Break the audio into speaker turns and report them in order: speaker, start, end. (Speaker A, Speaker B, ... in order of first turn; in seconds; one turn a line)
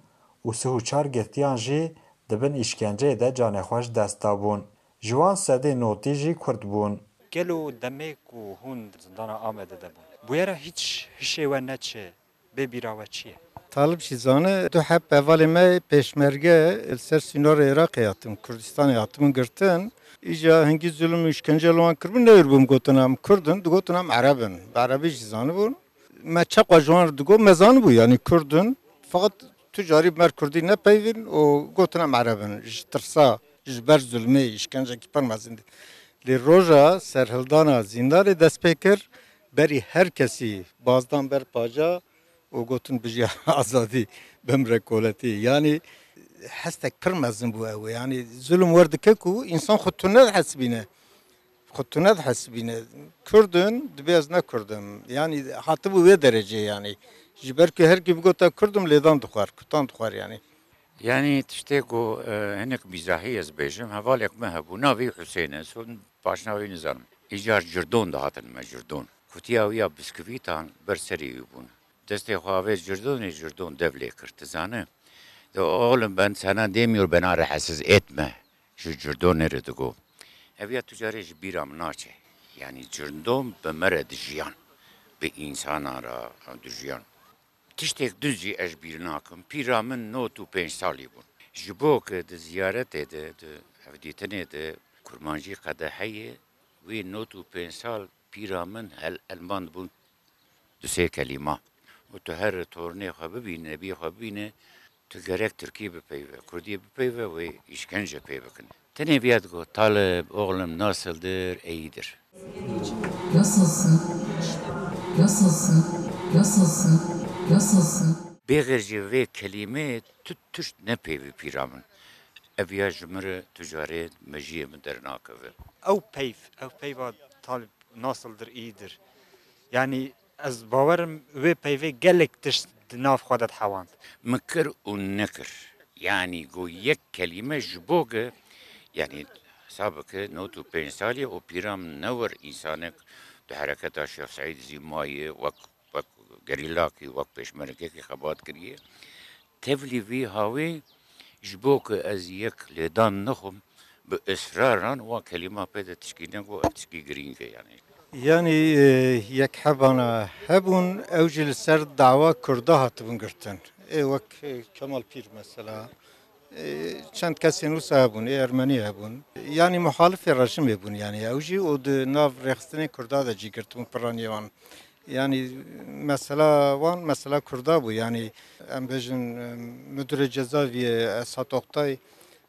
Speaker A: 0.4-7.0
Speaker B: 7.3-13.4
Speaker C: 13.7-35.6
Speaker C: 36.2-42.0
Speaker C: 42.5-45.8
Speaker C: 46.4-50.9
Speaker C: 51.7-60.4
Speaker D: 61.0-74.9
Speaker D: 75.5-80.0
Speaker D: 80.6-84.5
Speaker D: 85.2-87.0
Speaker D: 87.8-99.9
Speaker D: 100.8-104.5
Speaker D: 105.1-112.2
Speaker E: 113.4-114.0
Speaker E: 115.1-118.1
Speaker D: 118.5-121.8
Speaker D: 122.6-125.5
Speaker B: 125.8-129.0
Speaker B: 129.7-133.9
Speaker D: 134.2-138.3
Speaker D: 138.9-148.8
Speaker D: 149.6-150.8
Speaker D: 151.4-157.8
Speaker C: 158.1-165.9
Speaker C: 166.5-174.5
Speaker C: 175.1-182.0